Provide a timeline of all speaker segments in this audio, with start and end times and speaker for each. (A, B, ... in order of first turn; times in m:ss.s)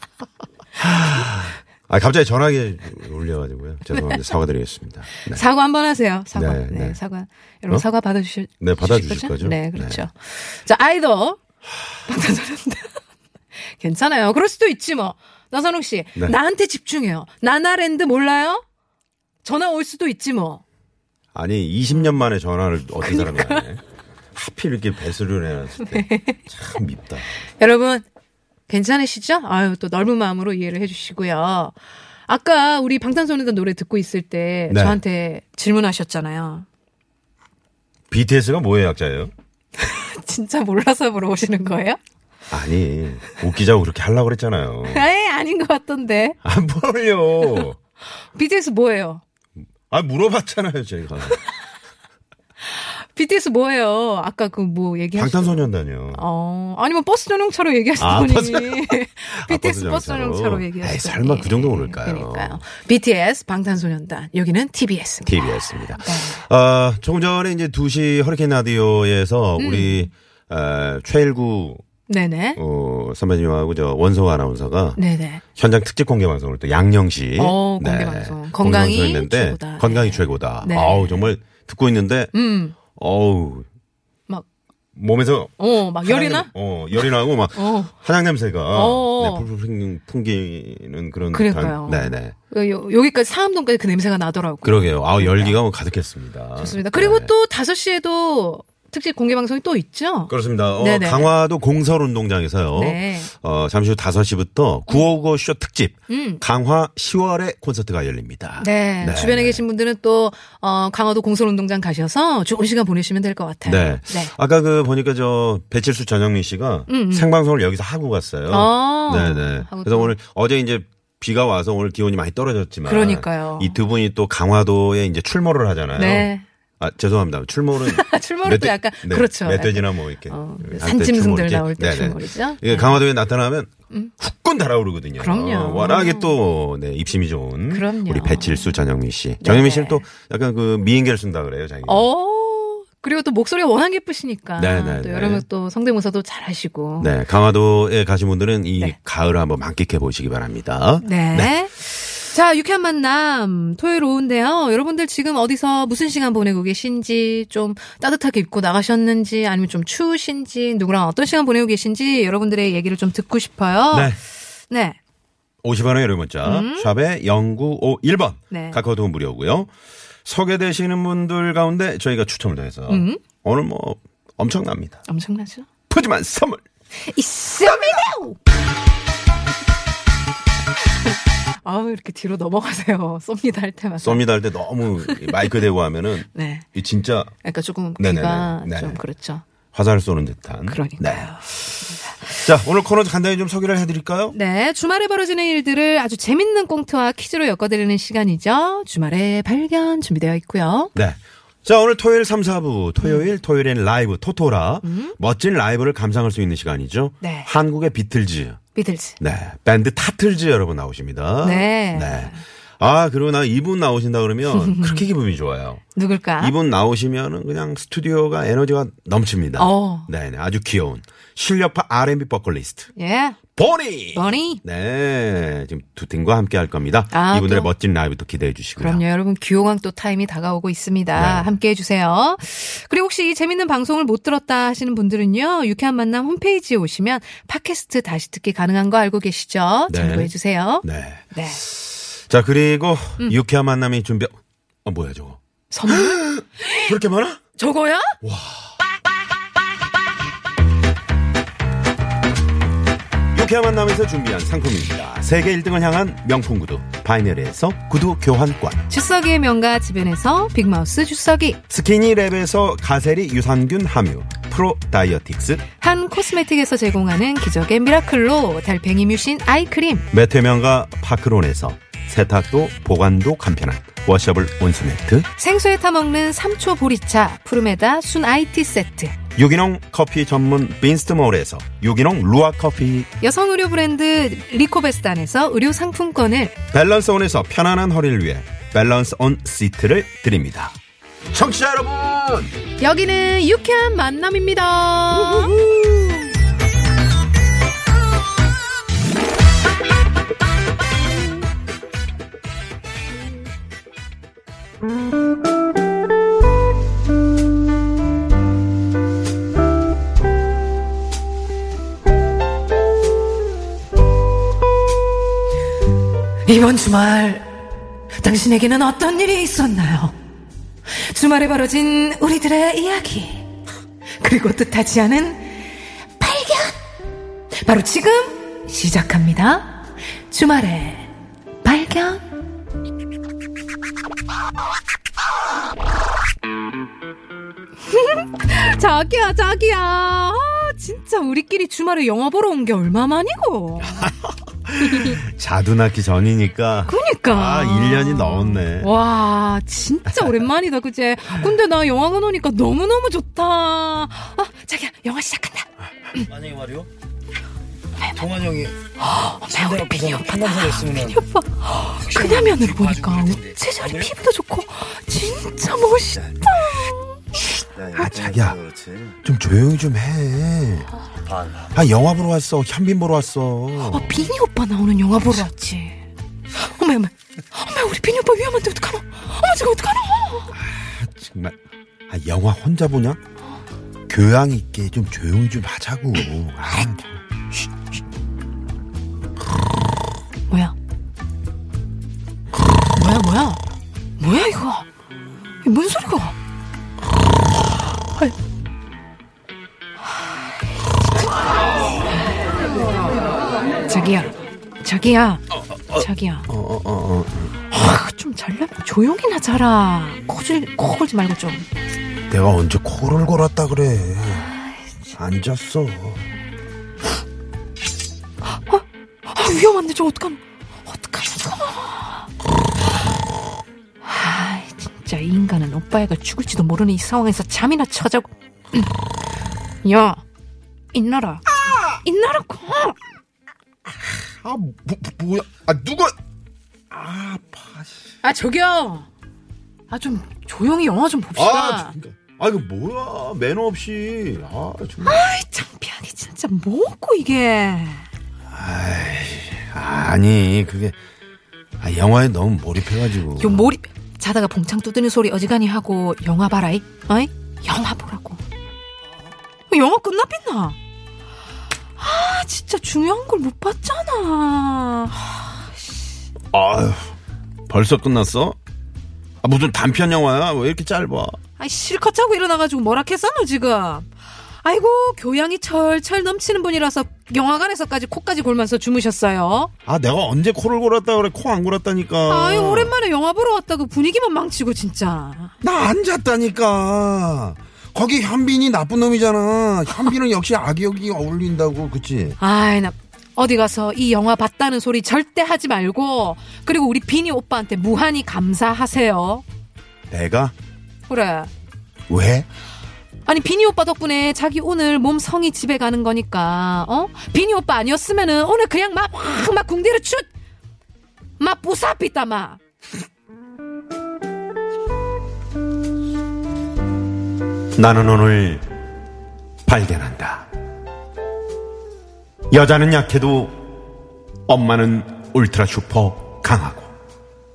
0:00.8-0:05.4 A
0:03.9-0:04.2 B
0:05.2-0:11.4 B
0:06.3-0:07.0 A
0:08.6-0:10.0 A
0:12.1-0:12.9 B
0:13.6-0:18.6 B
0:19.4-0:20.6 B
0:21.3-0:23.8 A
0:23.0-0:23.7 B
0:24.3-0:27.3 A
0:25.9-0:26.4 B
0:27.6-0:28.0 B
0:28.7-0:31.7 B
0:32.3-0:36.6 B
0:34.7-0:35.0 A
0:38.1-0:39.3 A
0:39.8-0:42.0 B
0:42.5-0:45.0 A
0:44.8-0:46.4 B
0:46.4-0:47.8 A
0:48.3-0:49.2 B
0:49.8-0:51.4 A
0:52.7-1:06.4 B
0:55.1-0:56.2 A
0:58.0-1:02.6 A
1:05.2-1:11.8 A
1:09.6-1:10.1 B
1:12.1-1:12.6 B
1:12.6-1:15.0 A
1:15.0-1:15.4 B
1:15.6-1:22.3 A
1:17.4-1:21.3 B
1:22.3-1:22.8 B
1:22.9-1:23.6 A
1:24.9-1:32.3 A
1:25.6-1:27.9 B
1:28.7-1:29.5 B
1:31.3-1:35.6 B
1:34.6-1:37.3 A
1:36.6-1:41.3 B
1:40.3-1:49.6 A
1:42.7-1:43.3 B
1:46.1-1:46.4 B
1:48.6-1:54.3 B
1:53.6-2:22.1 A
1:56.9-1:57.3 B
1:58.5-2:00.2 B
2:02.8-2:03.8 B
2:05.9-2:06.4 B
2:07.8-2:13.0 B
2:15.2-2:16.4 B
2:17.7-2:18.6 B
2:19.4-2:20.0 B
2:21.8-2:27.2 B
2:24.6-2:25.4 A
2:27.0-2:31.5 A
2:31.0-2:44.1 B
2:43.9-2:44.2 A
2:44.7-2:45.0 B
2:45.6-2:49.7 A
2:46.4-2:46.9 B
2:48.5-2:48.8 B
2:50.2-2:55.0 A
2:52.9-2:53.2 B
2:55.1-2:55.6 B
2:55.9-2:56.6 A
2:57.1-2:58.4 B
2:57.6-2:58.1 A
3:01.6-3:05.6 B
3:04.0-3:07.3 A
3:06.3-3:06.6 B
3:07.4-3:09.4 B
3:08.0-3:09.0 A
3:09.7-3:11.7 A
3:10.7-3:12.3 B
3:12.2-3:14.4 A
3:14.3-3:20.9 B
3:20.9-3:28.6 A
3:23.0-3:23.3 B
3:24.8-3:25.1 B
3:27.2-3:27.5 B
3:28.7-3:29.2 B
3:29.2-3:35.8 A
3:31.4-3:32.4 B
3:34.5-3:35.0 B
3:35.9-3:36.6 B
3:36.4-3:42.9 A
3:39.6-3:40.1 B
3:42.9-3:43.4 B
3:43.5-3:49.0 A
3:44.1-3:44.6 B
3:47.1-3:47.7 B
3:48.8-4:01.6 B
3:51.1-3:51.5 A
3:59.9-4:00.3 A
4:00.8-4:04.3 A
4:04.8-4:07.4 A
4:05.7-4:06.9 B
4:07.5-4:08.2 B
4:08.2-4:08.7 A
4:13.3-4:18.8 A
4:18.9-4:21.6 B
4:21.7-4:25.6 A
4:25.8-4:30.0 B
4:30.1-4:35.3 A
4:35.4-4:39.2 B
4:39.4-4:43.1 A
4:43.2-4:46.6 B
4:46.7-4:50.8 A
4:51.3-4:52.5 A
4:52.8-4:55.5 B
4:55.1-4:56.3 A
5:16.4-5:17.5 B
5:18.2-5:20.1 B
5:20.9-5:23.5 B
5:24.2-5:25.6 B
5:26.2-5:26.8 B
5:27.6-5:31.1 B
5:31.6-5:32.2 B
5:37.9-5:44.0 B
5:43.9-5:48.9 A
5:44.8-5:45.2 B
5:46.8-5:56.2 B
5:50.1-5:50.4 A
5:56.2-5:56.9 C
5:58.1-5:58.8 C
5:59.0-6:07.4 B
5:59.5-6:01.2 C
6:02.1-6:04.1 C
6:07.8-6:09.2 C
6:07.9-6:08.6 A
6:09.2-6:10.9 A
6:11.3-6:11.7 C
6:11.7-6:14.3 A
6:13.8-6:16.0 B
6:16.5-6:20.5 B
6:20.5-6:21.6 A
6:22.1-6:23.2 A
6:24.1-6:27.1 A
6:30.5-6:30.7 B
6:32.9-6:33.6 B
6:34.2-6:34.9 B
6:35.6-6:36.3 B
6:43.9-6:46.5 B
6:45.5-6:47.6 A
6:47.7-6:51.7 B
6:52.3-6:54.5 A
6:54.3-6:55.1 B
6:55.1-6:56.2 A
6:58.5-7:02.3 B
7:04.0-7:08.9 B
7:09.8-7:10.2 B
7:10.9-7:11.4 B
7:11.5-7:12.0 A
7:12.0-7:13.0 B
7:13.8-7:16.1 A
7:16.9-7:18.0 A
7:18.2-7:19.1 B
7:19.9-7:21.9 B
7:21.3-7:25.3 A
7:25.0-7:28.1 B
7:28.5-7:31.0 A
7:31.8-7:33.7 A
7:33.4-7:38.4 B
7:39.7-7:40.8 B
7:42.0-7:46.0 B
7:46.5-7:47.1 A
7:47.7-7:48.6 A
7:49.4-7:51.4 A
7:51.6-7:54.1 B
7:54.6-7:59.7 B
7:59.8-8:02.9 A
8:02.3-8:05.5 B
8:05.6-8:12.4 A
8:12.4-8:19.4 B
8:20.1-8:20.5 A
8:21.1-8:21.5 B
8:22.1-8:22.5 A
8:23.2-8:30.2 B
8:31.4-8:32.6 B
8:37.8-8:38.6 A
8:39.6-8:40.5 A
8:42.5-8:43.5 A
8:44.5-8:46.9 A